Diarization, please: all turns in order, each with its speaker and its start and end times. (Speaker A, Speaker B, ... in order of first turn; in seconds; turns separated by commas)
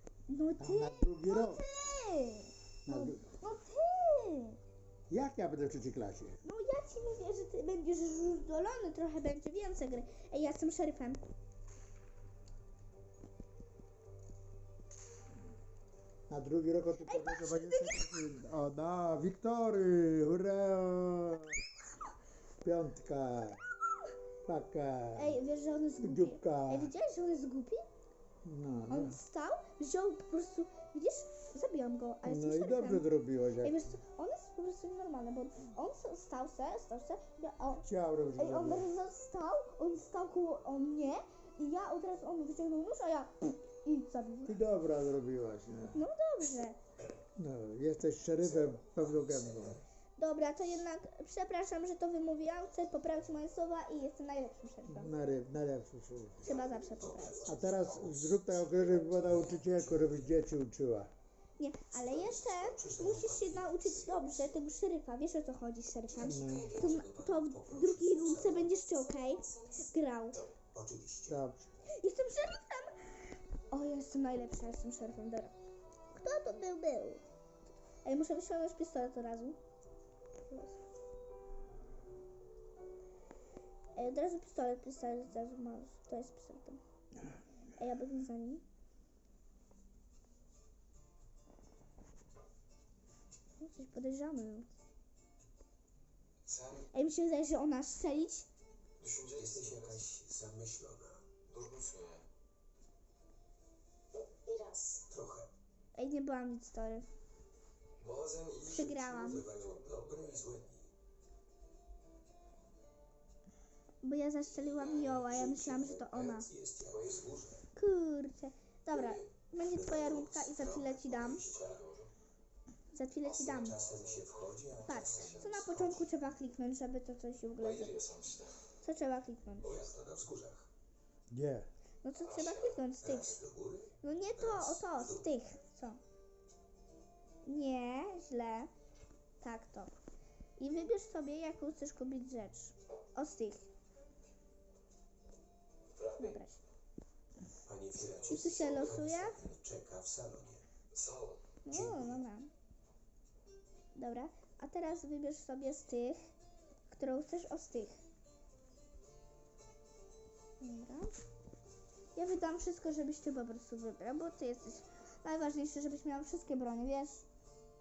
Speaker A: 0.3-4.6, Speaker B: 0.6-1.6, Speaker B: 2.9-3.3, Speaker B: 5.1-6.4, Speaker A: 6.4-11.2, Speaker B: 16.3-21.6, Speaker A: 17.0-18.2, Speaker B: 22.6-23.6, Speaker A: 23.8-24.1, Speaker B: 24.4-25.4, Speaker A: 25.1-27.8, Speaker B: 26.0-26.9, Speaker B: 28.4-29.2, Speaker A: 28.9-33.1, Speaker B: 32.2-33.8, Speaker A: 33.6-44.6, Speaker B: 37.8-38.9, Speaker B: 44.5-46.0, Speaker A: 45.9-46.8, Speaker B: 47.4-49.8, Speaker C: 48.4-49.8, Speaker A: 50.2-55.1, Speaker B: 54.8-56.4, Speaker A: 56.4-57.5, Speaker C: 56.4-60.4, Speaker B: 57.4-61.1, Speaker A: 61.6-70.4, Speaker C: 61.9-64.6, Speaker D: 66.1-66.9, Speaker B: 66.2-66.7, Speaker C: 66.5-68.7, Speaker D: 68.5-69.9, Speaker C: 70.7-71.4, Speaker B: 71.3-71.7, Speaker A: 71.9-75.5, Speaker A: 76.1-77.2, Speaker A: 78.0-79.6, Speaker A: 80.5-80.8, Speaker A: 83.9-86.8, Speaker A: 87.8-88.6, Speaker A: 93.6-94.7, Speaker E: 96.4-96.9, Speaker A: 96.9-98.5, Speaker E: 99.0-100.1, Speaker C: 99.3-101.3, Speaker E: 101.5-102.2, Speaker D: 104.1-105.0, Speaker C: 105.1-105.5, Speaker A: 105.9-107.1, Speaker E: 108.0-110.5, Speaker C: 108.6-110.9, Speaker A: 108.7-109.4, Speaker A: 114.0-116.5, Speaker C: 114.6-117.6, Speaker E: 114.7-117.4, Speaker A: 117.7-121.5, Speaker E: 118.9-119.3, Speaker C: 119.7-121.8, Speaker E: 121.2-122.1, Speaker A: 122.9-123.8, Speaker C: 123.2-126.1, Speaker E: 123.7-125.8, Speaker A: 124.8-128.0, Speaker E: 127.6-128.6, Speaker A: 128.8-129.7, Speaker E: 129.6-130.1, Speaker C: 129.6-130.7, Speaker B: 131.3-131.7, Speaker A: 132.0-133.4, Speaker E: 132.2-132.9, Speaker C: 133.0-135.3, Speaker A: 134.0-136.0, Speaker A: 137.4-138.7, Speaker A: 139.4-139.9, Speaker A: 140.6-143.7, Speaker E: 145.9-146.4, Speaker A: 146.2-146.6, Speaker C: 147.6-150.6, Speaker E: 147.9-149.0, Speaker A: 148.3-149.4, Speaker E: 150.9-151.6, Speaker A: 151.6-152.5, Speaker C: 151.7-152.2, Speaker A: 153.9-156.2, Speaker A: 156.9-158.0, Speaker A: 160.6-161.1, Speaker A: 162.1-167.2